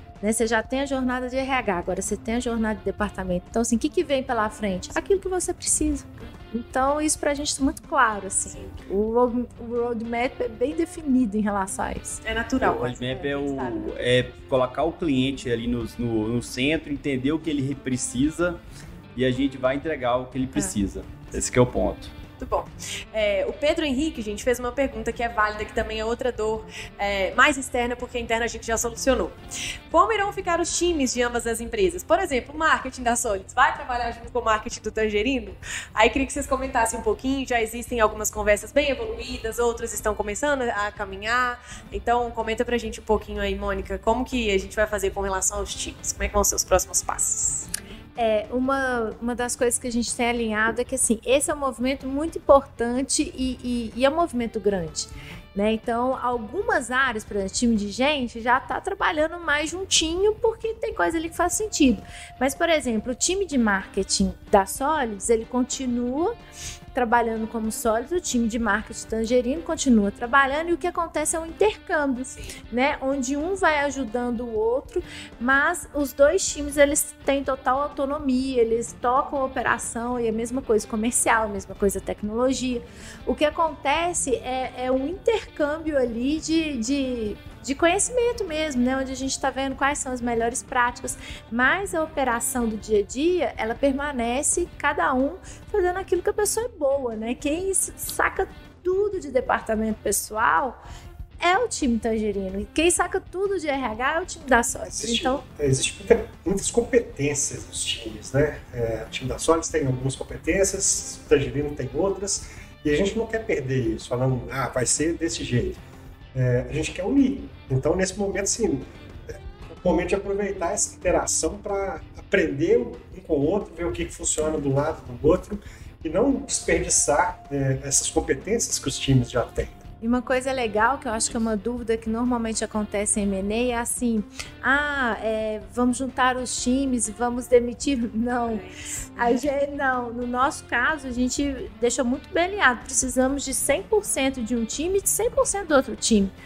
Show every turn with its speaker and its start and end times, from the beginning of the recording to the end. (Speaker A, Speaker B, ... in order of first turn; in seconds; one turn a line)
Speaker A: 0.2-12.2
Speaker B: 12.2-13.8
Speaker C: 12.6-18.6
Speaker C: 19.1-22.1
Speaker B: 22.4-29.4
Speaker B: 29.9-47.7
Speaker A: 48.2-66.4
Speaker A: 66.9-100.8
Speaker A: 101.4-105.4
Speaker D: 104.9-115.8
Speaker D: 116.3-129.8
Speaker A: 130.0-138.7
Speaker B: 138.5-139.5
Speaker A: 139.2-146.3